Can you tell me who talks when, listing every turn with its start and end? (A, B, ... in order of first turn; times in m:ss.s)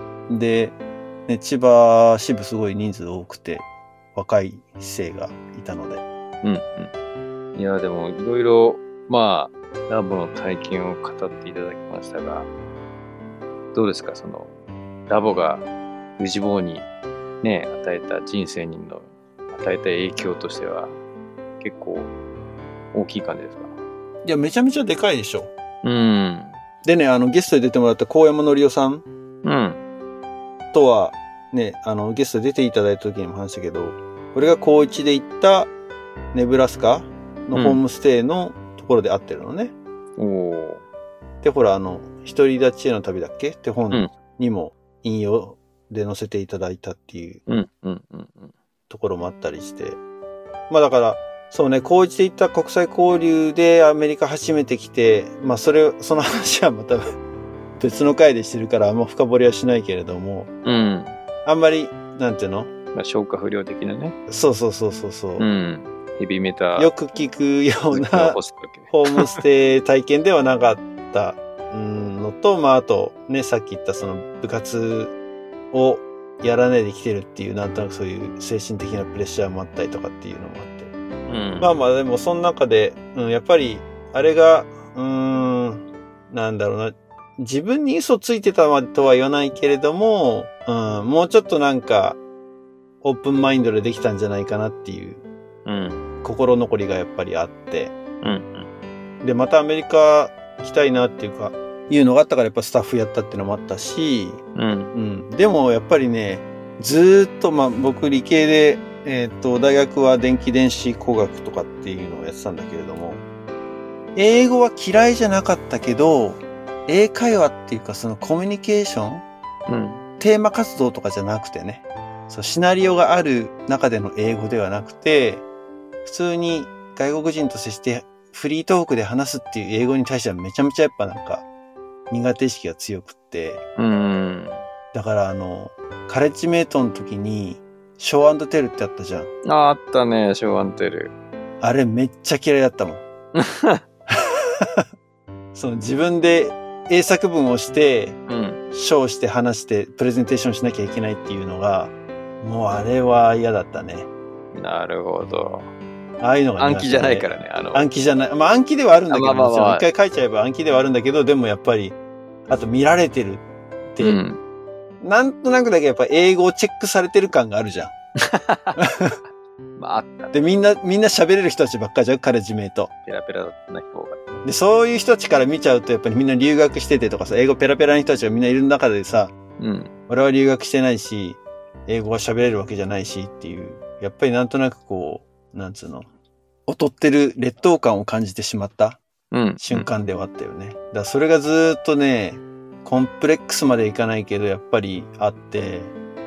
0:00.3-0:06.0 A
0:06.4-0:06.9 B
0:07.5-0:12.5 B
0:13.7-0:14.5 B
0:15.1-0:15.6 B
0:16.2-0:16.9 B
0:17.4-0:21.0 B
0:21.6-0:22.1 B
0:22.9-0:23.7 B
0:24.2-0:25.5 A
0:25.8-0:26.6 B
0:26.8-0:29.0 A
0:29.4-0:29.8 B
0:30.7-0:35.7 A
0:36.3-0:39.7 A
0:37.5-0:37.8 B
0:40.2-0:40.8 B
0:41.4-0:47.4 A
0:47.5-0:48.5 B
0:48.9-0:50.0 A
0:50.7-0:57.0 A
0:57.8-1:00.5 A
1:00.6-1:01.2 B
1:01.4-1:02.7 A
1:02.9-1:04.2 B
1:04.3-1:05.5 A
1:05.4-1:06.9 B
1:06.8-1:15.1 A
1:07.9-1:09.4 B
1:15.7-1:20.9 A
1:21.3-1:21.7 B
1:21.6-1:32.2 A
1:33.0-1:35.2 A
1:35.6-1:36.1 B
1:36.2-1:37.9 A
1:38.2-1:38.7 B
1:39.2-1:44.4 A
1:44.5-1:44.9 B
1:44.9-1:53.2 A
1:54.1-1:59.2 A
1:59.7-2:00.0 B
2:00.2-2:05.4 A
2:06.0-2:11.4 A
2:12.1-2:13.6 A
2:13.8-2:14.7 B
2:14.9-2:19.3 A
2:19.4-2:21.1 B
2:21.6-2:23.0 A
2:23.4-2:23.8 B
2:24.1-2:24.8 A
2:25.5-2:28.2 A
2:28.3-2:28.6 B
2:28.7-2:34.1 A
2:34.5-2:35.7 B
2:36.2-2:42.0 A
2:36.6-2:37.9 B
2:39.1-2:39.9 B
2:42.5-2:44.2 A
2:44.0-2:44.4 B
2:45.0-2:47.9 A
2:48.2-2:48.9 B
2:48.8-2:49.2 A
2:49.8-2:50.3 B
2:50.3-2:52.9 A
2:53.0-2:54.4 B
2:54.4-2:59.3 A
2:59.6-2:59.9 B
3:00.1-3:06.1 A
3:06.7-3:09.0 A
3:09.3-3:09.9 B
3:09.6-3:15.9 A